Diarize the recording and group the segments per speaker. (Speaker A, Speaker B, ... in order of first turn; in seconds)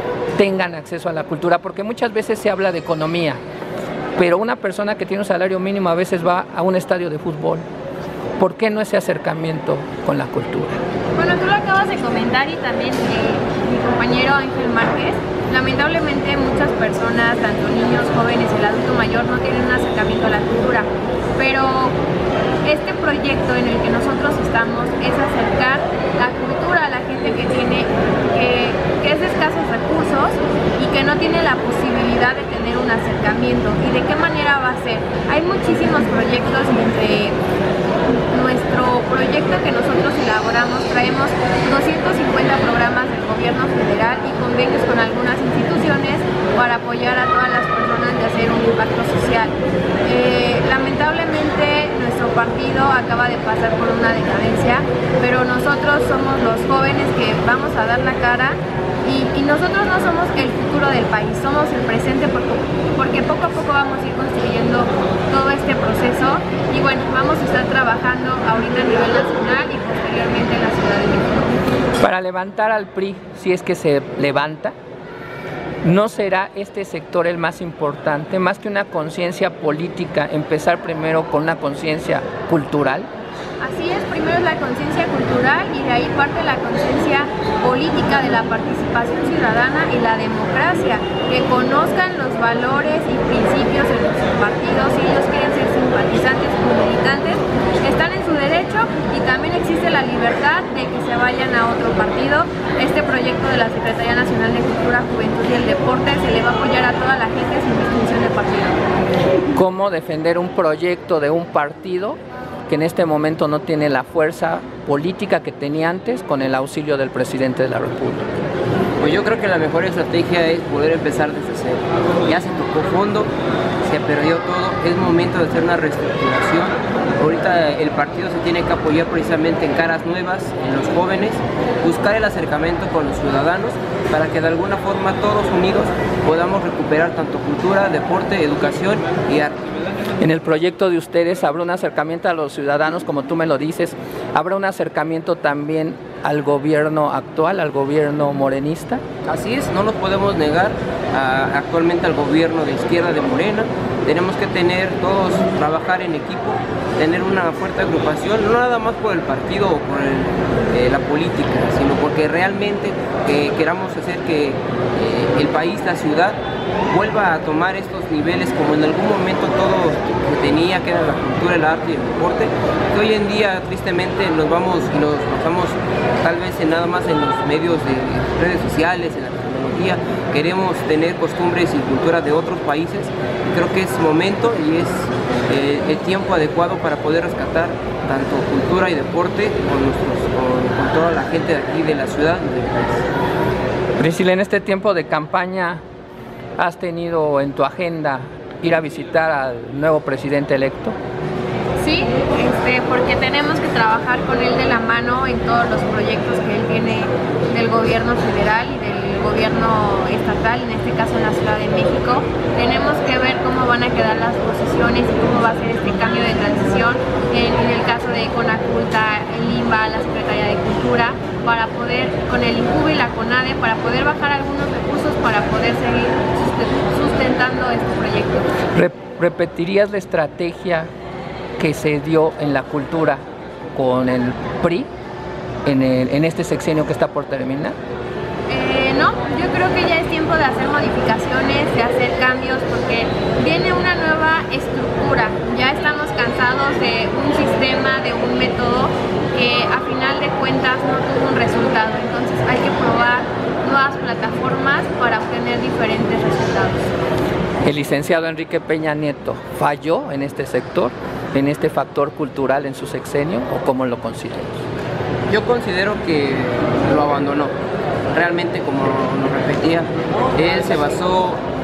Speaker A: 0.4-3.4, 4.2-7.6, 8.4-10.8, 72.0-74.7, 75.8-83.1, 109.5-118.4, 140.2-149.0, 194.0-195.8, 196.6-200.9, 228.7-230.9, 231.6-233.2, 233.7-234.9, 235.7-237.8, 257.6-264.6
Speaker B: 11.2-22.0, 22.6-37.4, 38.3-71.5, 83.6-108.8, 201.8-228.5, 238.5-256.9
Speaker C: 119.0-123.3, 123.8-139.6, 149.2-166.4, 166.9-193.1, 265.3-267.5, 268.1-271.4